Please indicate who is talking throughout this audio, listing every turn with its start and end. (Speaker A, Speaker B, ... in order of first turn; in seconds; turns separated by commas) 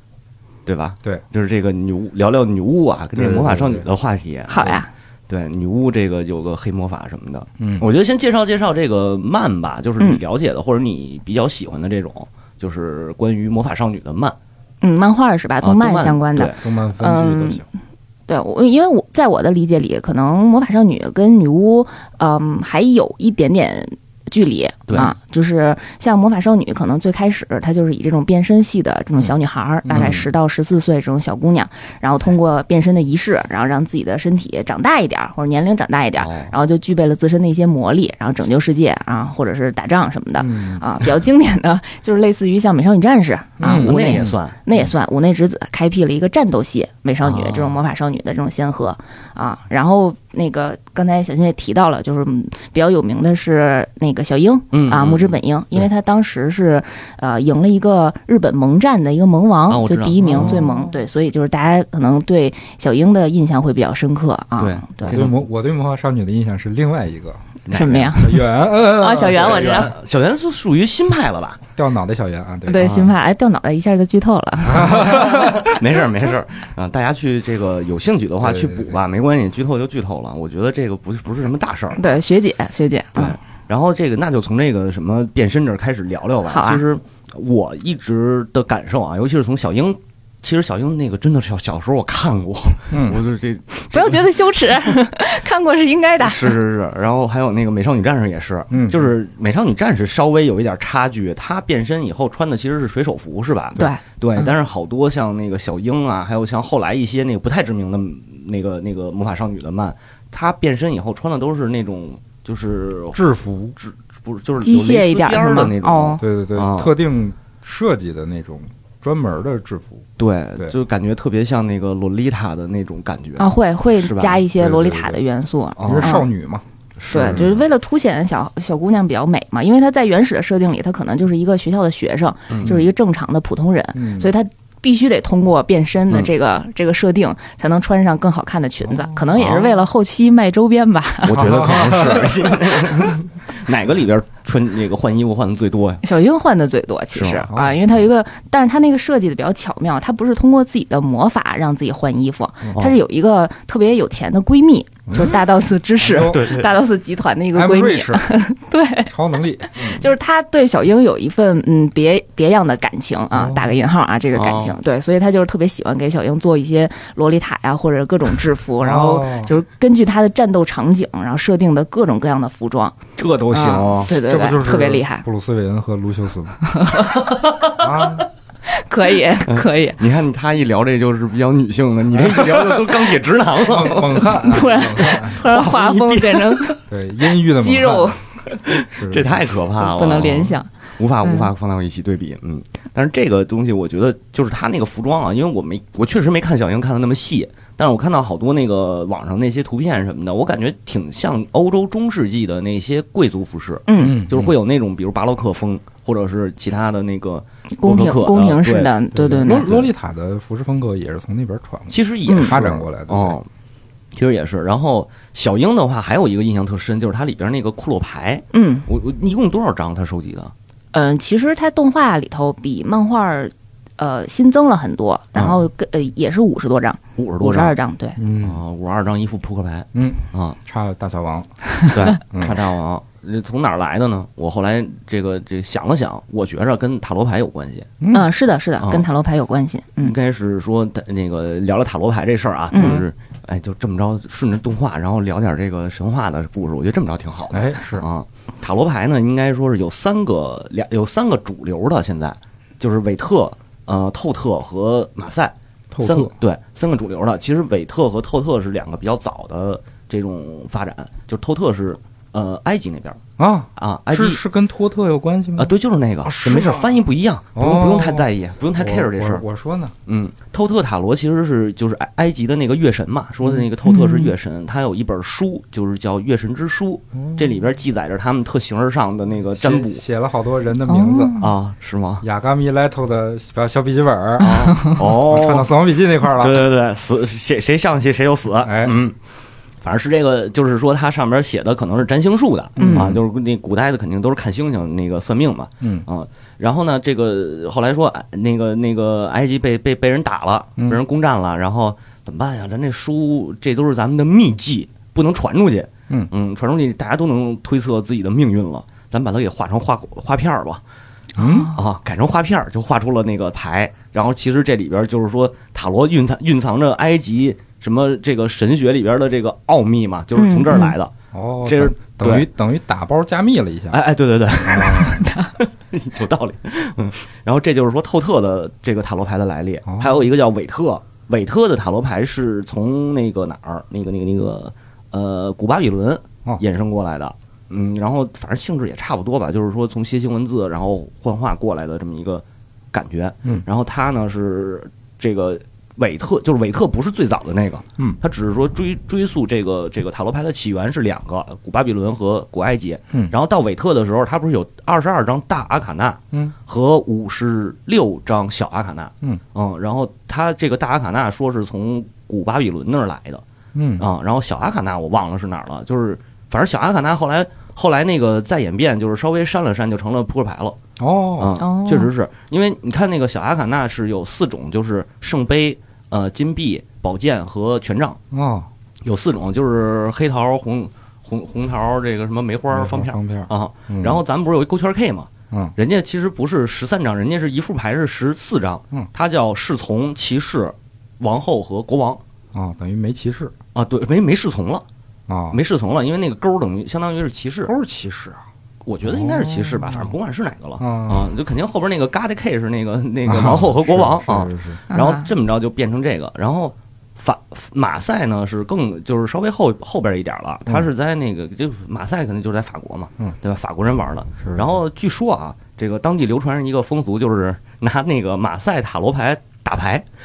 Speaker A: 0.7-14.4, Speaker B: 3.2-3.9, Speaker C: 4.5-4.9, Speaker B: 7.6-7.9, Speaker C: 14.8-17.6, Speaker A: 15.6-16.6, Speaker B: 16.5-17.6, Speaker C: 18.3-65.2, Speaker A: 24.9-25.1, Speaker A: 29.9-30.3, Speaker A: 36.2-36.5, Speaker B: 40.4-40.9, Speaker B: 43.6-44.0, Speaker A: 43.6-44.6, Speaker A: 47.2-47.8, Speaker A: 54.7-55.9, Speaker A: 59.7-60.6, Speaker B: 60.2-60.8, Speaker A: 64.6-65.3, Speaker B: 65.1-67.4, Speaker A: 67.7-68.4, Speaker C: 67.7-69.9, Speaker B: 68.1-69.8, Speaker A: 69.2-71.6, Speaker B: 71.8-72.9, Speaker C: 72.7-75.6, Speaker A: 72.8-73.1, Speaker B: 74.8-75.7, Speaker A: 74.8-82.0, Speaker B: 78.4-79.0, Speaker C: 82.0-83.4, Speaker A: 83.2-94.3, Speaker C: 86.5-86.8, Speaker B: 92.9-93.2, Speaker C: 93.9-96.6, Speaker A: 96.2-113.2, Speaker B: 98.7-99.1, Speaker C: 103.8-104.5, Speaker B: 113.1-113.8, Speaker A: 113.8-116.9, Speaker C: 114.6-116.2, Speaker B: 116.2-120.0, Speaker A: 120.2-124.4, Speaker C: 123.4-126.3, Speaker B: 124.6-125.2, Speaker A: 125.8-126.2, Speaker B: 125.8-127.5, Speaker A: 127.0-127.6, Speaker C: 127.1-141.7, Speaker A: 132.5-132.8, Speaker B: 133.9-134.3, Speaker B: 138.9-139.2, Speaker A: 139.4-139.8, Speaker A: 141.2-146.0, Speaker B: 141.3-142.4, Speaker C: 146.0-159.1, Speaker A: 147.1-147.5, Speaker B: 147.5-147.8, Speaker B: 155.1-155.4, Speaker B: 156.0-156.5, Speaker A: 156.2-156.7, Speaker B: 157.5-158.2, Speaker B: 159.1-160.0, Speaker C: 159.6-173.0, Speaker B: 163.3-163.7, Speaker A: 164.3-164.8, Speaker B: 168.8-169.6, Speaker A: 173.2-174.1, Speaker C: 173.5-175.2, Speaker B: 174.1-176.6, Speaker C: 176.7-177.3, Speaker A: 177.1-178.3, Speaker B: 177.8-178.3, Speaker C: 178.7-180.0, Speaker A: 179.5-186.8, Speaker B: 182.2-183.0, Speaker B: 183.6-185.4, Speaker C: 184.1-186.8, Speaker B: 186.9-188.1, Speaker C: 187.6-188.2, Speaker A: 188.5-209.9, Speaker B: 188.9-189.4, Speaker C: 189.8-190.7, Speaker C: 191.2-191.5, Speaker C: 203.9-204.2, Speaker B: 204.0-204.5, Speaker C: 207.8-209.8, Speaker B: 209.1-213.4, Speaker A: 211.9-213.5, Speaker C: 212.3-212.6, Speaker A: 214.1-220.5, Speaker C: 218.5-218.9, Speaker C: 220.9-228.2, Speaker A: 227.2-227.8, Speaker B: 228.2-228.6, Speaker A: 228.4-230.6, Speaker B: 229.9-231.6, Speaker A: 231.9-237.9, Speaker B: 232.2-232.6, Speaker B: 238.0-238.3, Speaker C: 238.1-240.2, Speaker A: 238.8-239.1, Speaker A: 240.0-263.2, Speaker C: 242.7-243.0, Speaker B: 242.8-243.0, Speaker B: 247.5-248.1, Speaker B: 255.9-256.3, Speaker B: 263.4-265.7, Speaker A: 263.8-264.4, Speaker A: 265.6-269.4, Speaker B: 266.2-266.9, Speaker B: 267.6-269.9, Speaker A: 270.1-280.0, Speaker C: 273.9-274.3, Speaker B: 277.2-277.5, Speaker B: 279.6-281.3, Speaker C: 280.9-281.5, Speaker A: 281.4-282.2, Speaker B: 282.2-286.7, Speaker A: 284.4-285.7, Speaker A: 286.4-289.2, Speaker B: 288.6-289.0, Speaker A: 289.8-310.8, Speaker B: 292.8-293.2, Speaker C: 292.8-293.2, Speaker B: 311.4-311.7, Speaker C: 311.4-311.8, Speaker A: 311.8-321.1, Speaker C: 320.4-320.9, Speaker B: 321.3-324.0, Speaker A: 321.6-322.5, Speaker A: 323.9-363.4, Speaker B: 324.6-325.2, Speaker C: 325.1-325.5, Speaker B: 329.9-330.2, Speaker B: 363.8-364.1, Speaker A: 364.0-370.8, Speaker B: 371.0-371.6, Speaker A: 371.4-378.2, Speaker C: 371.6-372.1, Speaker B: 378.3-378.7, Speaker A: 379.0-392.2, Speaker B: 382.7-384.2, Speaker B: 392.5-393.5, Speaker A: 393.8-394.8, Speaker B: 395.3-395.6, Speaker A: 395.5-397.7, Speaker B: 397.6-398.4, Speaker A: 398.9-420.1, Speaker B: 399.1-400.1, Speaker B: 400.8-401.3, Speaker B: 403.2-404.8, Speaker C: 404.9-405.3, Speaker B: 414.4-414.7